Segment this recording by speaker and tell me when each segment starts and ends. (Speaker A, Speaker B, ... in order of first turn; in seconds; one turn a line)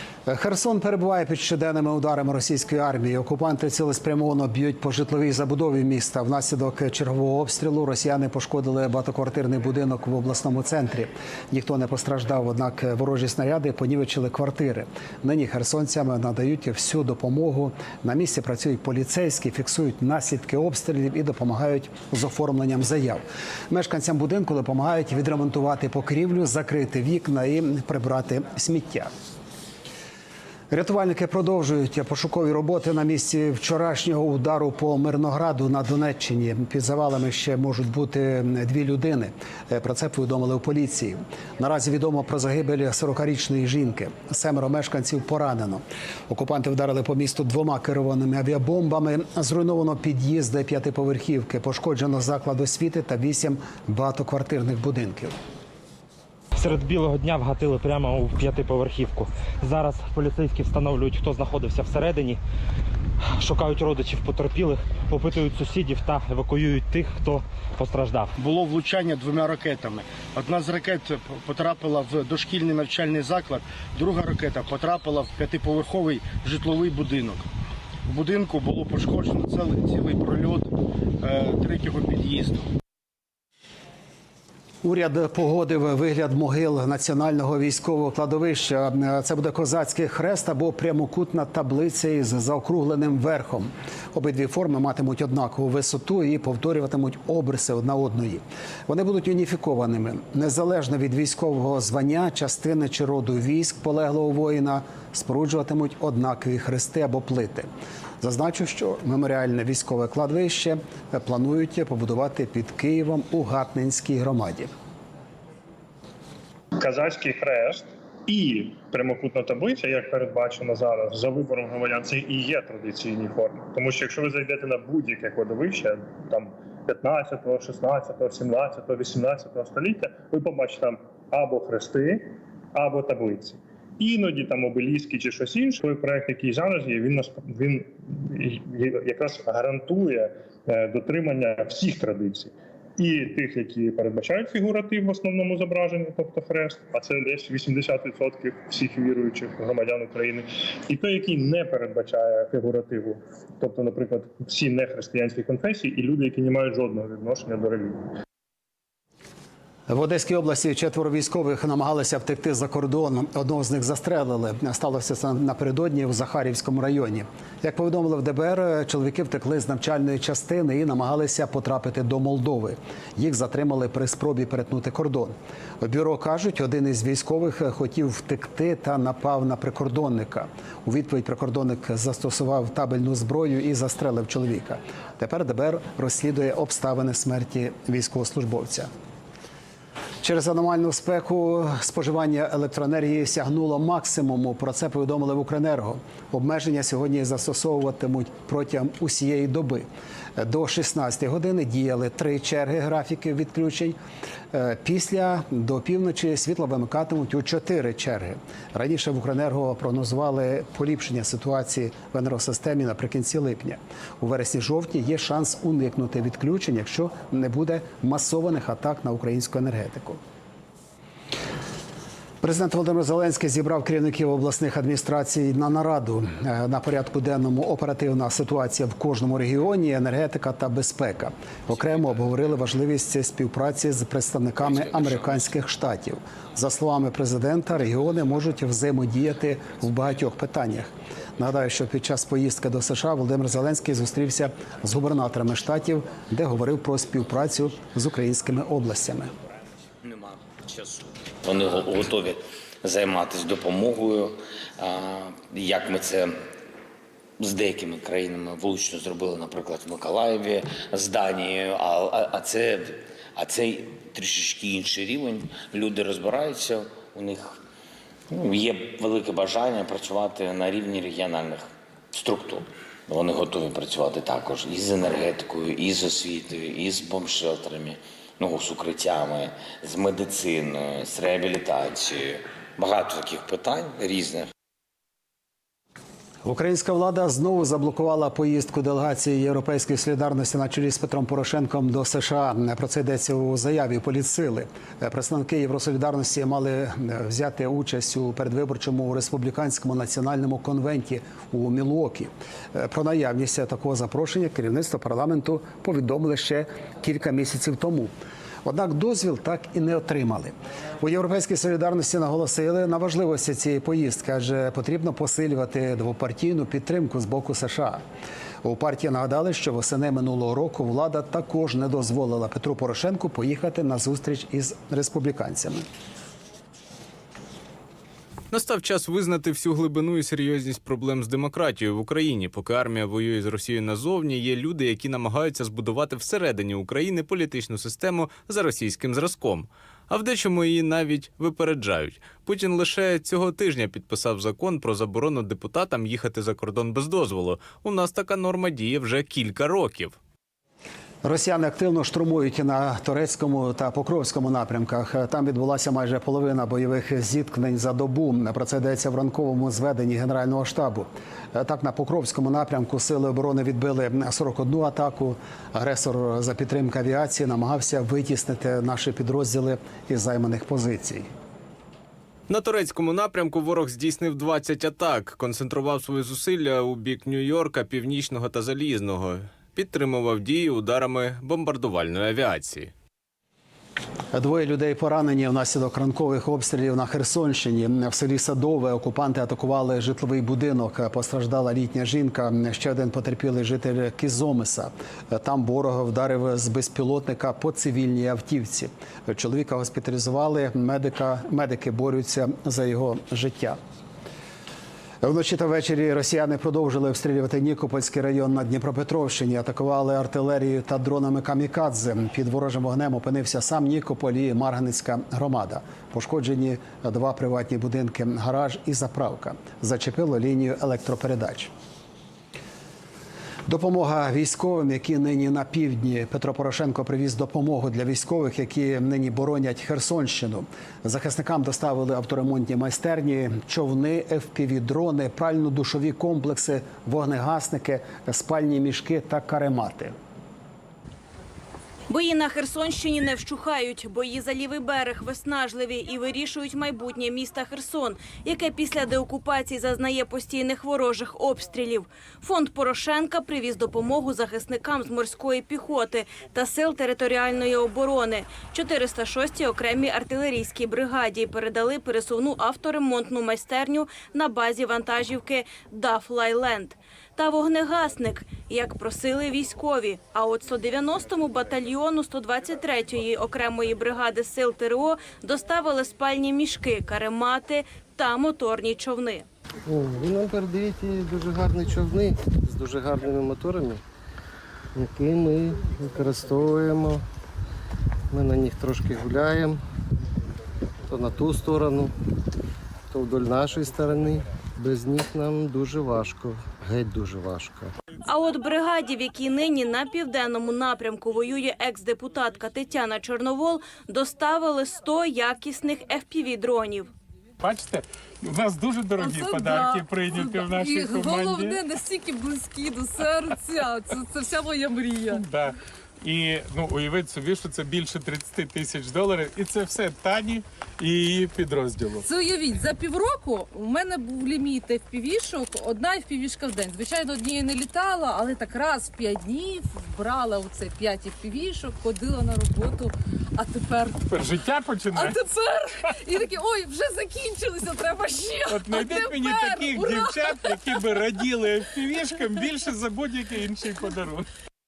Speaker A: 0.3-29.1
Speaker A: 30.7-55.4
Speaker B: 56.5-62.4
Speaker B: 63.3-68.3
Speaker C: 68.4-77.4
Speaker C: 78.1-82.7
Speaker A: 84.8-107.7
Speaker A: 108.2-114.7
Speaker D: 116.8-158.1
Speaker A: 159.9-188.9
Speaker A: 190.2-199.8
Speaker A: 200.4-204.0
Speaker A: 204.5-220.2
Speaker A: 222.4-249.3
Speaker E: 250.7-256.3
Speaker E: 257.4-267.5
Speaker E: 268.4-284.5
Speaker A: 286.4-308.1
Speaker A: 308.6-318.0
Speaker A: 318.6-325.9
Speaker F: 328.5-350.2
Speaker A: 351.2-371.3
Speaker F: 372.5-382.9
Speaker A: 384.3-403.8
Speaker A: 405.2-421.7
Speaker A: 423.7-440.1
Speaker G: 442.1-479.4
Speaker H: 479.9-484.0
Speaker H: 484.9-487.2
Speaker H: 488.3-489.8
Speaker H: 491.1-492.1
Speaker H: 493.1-497.9
Speaker G: 498.3-507.1
Speaker I: 507.7-511.8
Speaker J: 509.2-515.4
Speaker I: 515.4-515.7
Speaker I: 516.3-522.2
Speaker J: 522.2-541.2
Speaker I: 534.3-535.2
Speaker I: 538.7-544.4